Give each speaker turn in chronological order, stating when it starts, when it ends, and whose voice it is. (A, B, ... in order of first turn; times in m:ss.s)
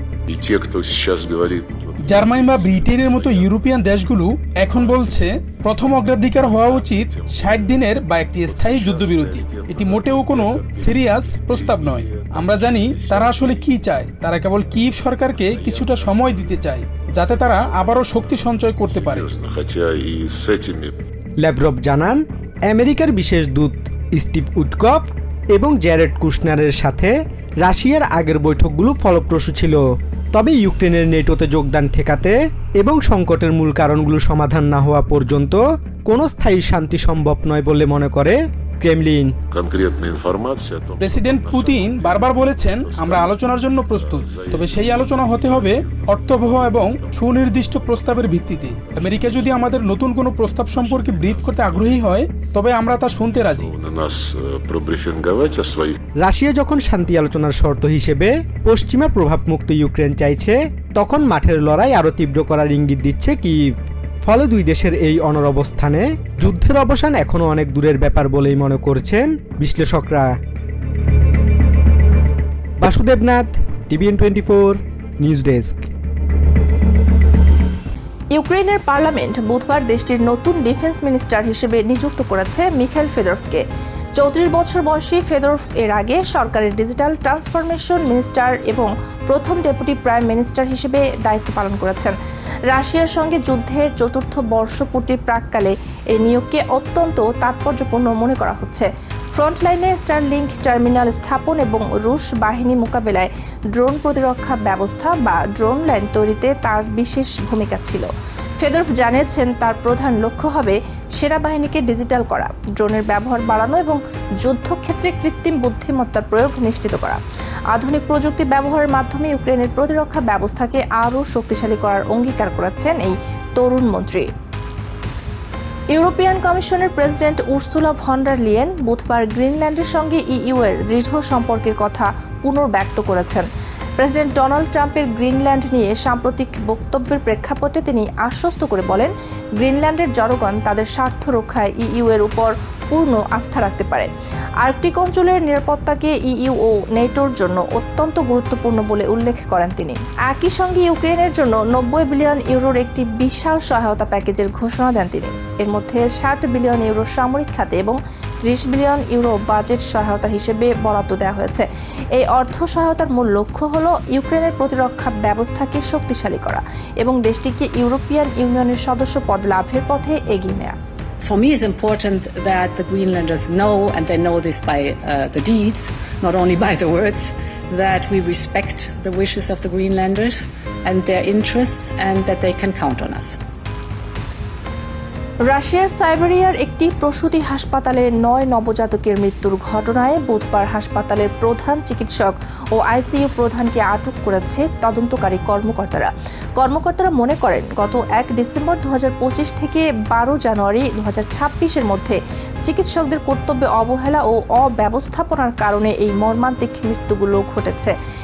0:00.3-0:04.0 A
0:02.0-0:19.3 B
0:04.7-0:05.2 A
0:06.4-0:07.8 A
0:08.4-0:14.0 A
0:14.6-0:21.0 A
0:21.4-0:29.8 C
0:30.3-0:39.4 C
0:39.5-0:49.7 A
0:41.0-0:53.7 B
0:50.7-0:52.0 A
0:53.3-0:56.0 A
0:56.2-1:03.7 C
1:04.2-1:10.3 C
1:12.8-1:15.8 C
1:18.3-1:32.2 D
1:32.7-1:57.2 D
1:57.7-2:04.3 D
2:05.9-2:24.1 D
2:24.6-2:50.8 D
2:51.2-3:03.4 E
3:05.4-3:28.0 D